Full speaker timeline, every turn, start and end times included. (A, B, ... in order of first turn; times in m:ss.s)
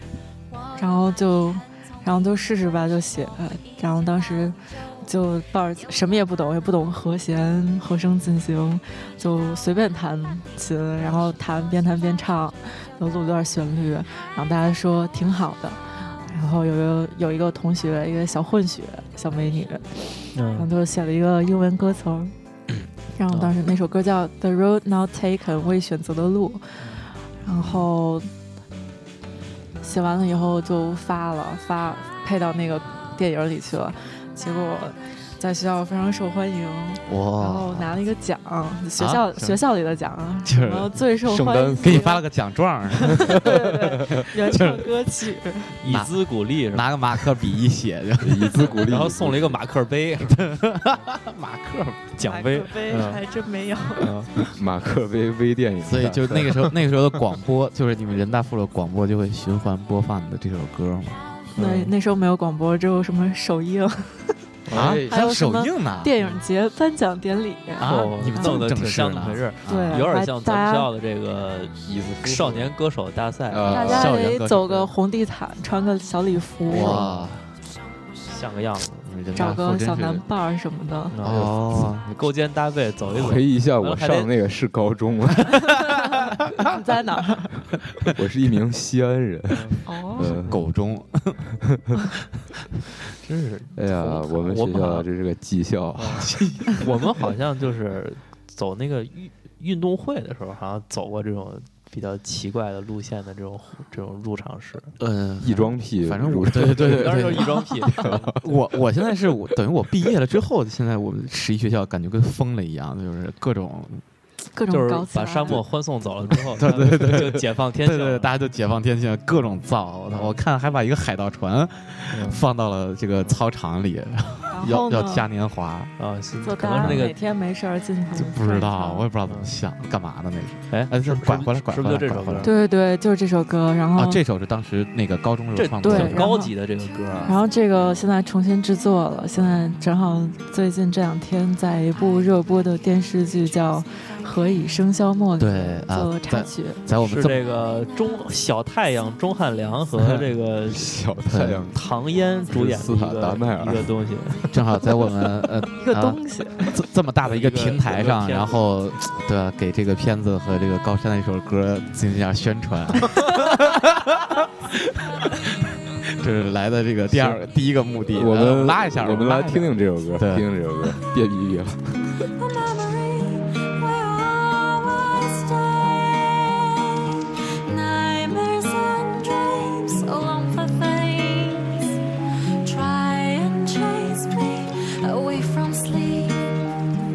0:00.8-0:22.3 A
0:20.3-0:20.7 B
0:23.2-0:28.3 A
0:27.5-0:27.8 C
0:29.8-0:42.2 A
0:37.0-0:37.9 C
0:39.0-0:39.6 C
0:40.4-0:41.0 C
0:41.2-0:42.1 D
0:41.8-0:43.5 C
0:42.9-0:45.7 A
0:43.1-0:44.2 D
0:44.1-0:45.0 C
0:45.8-0:46.9 B
0:45.8-0:48.7 C
0:48.2-0:49.6 D
0:48.6-0:50.6 B
0:50.2-0:52.0 C
0:52.1-0:53.2 B
0:52.2-0:54.1 A
0:54.0-0:54.3 B
0:54.5-0:56.7 D
0:55.8-1:01.2 C
1:01.6-1:01.9 B
1:01.6-1:04.4 A
1:04.7-1:05.0 B
1:04.7-1:06.1 C
1:04.7-1:05.1 D
1:05.1-1:08.5 A
1:07.8-1:10.0 C
1:07.8-1:13.7 B
1:09.6-1:10.9 A
1:11.8-1:12.7 D
1:13.5-1:14.1 D
1:13.7-1:17.0 A
1:13.7-1:14.9 C
1:16.6-1:17.4 C
1:16.7-1:17.3 B
1:18.2-1:19.0 B
1:19.0-1:20.2 C
1:19.3-1:21.2 A
1:21.1-1:24.3 B
1:21.2-1:22.0 C
1:23.1-1:25.6 D
1:26.7-1:27.5 A
1:28.1-1:30.5 D
1:29.5-1:29.8 B
1:29.8-1:30.3 A
1:30.3-1:31.4 C
1:33.2-1:35.1 B
1:33.8-1:36.3 D
1:35.9-1:44.9 B
1:36.2-1:36.8 C
1:45.0-1:54.0 C
1:45.4-1:48.5 D
1:46.6-1:48.3 B
1:54.5-1:55.6 A
1:54.7-1:58.3 B
1:56.5-2:05.9 C
2:00.1-2:00.4 B
2:02.1-2:02.4 B
2:04.5-2:05.3 A
2:06.0-2:07.1 B
2:06.4-2:09.1 A
2:06.8-2:07.1 C
2:08.1-2:12.5 C
2:10.7-2:12.5 B
2:12.4-2:14.2 A
2:14.0-2:16.3 C
2:15.5-2:17.4 B
2:15.8-2:16.5 A
2:17.2-2:26.8 A
2:25.4-2:27.4 C
2:27.0-2:31.0 B
2:30.7-2:31.8 D
2:31.2-2:31.7 C
2:31.7-2:34.5 B
2:32.5-2:33.9 D
2:34.5-2:45.5 C
2:35.8-2:36.7 A
2:37.2-2:38.6 B
2:46.1-2:50.5 C
2:48.1-2:52.0 D
2:52.2-3:02.0 E
3:02.6-3:06.6 E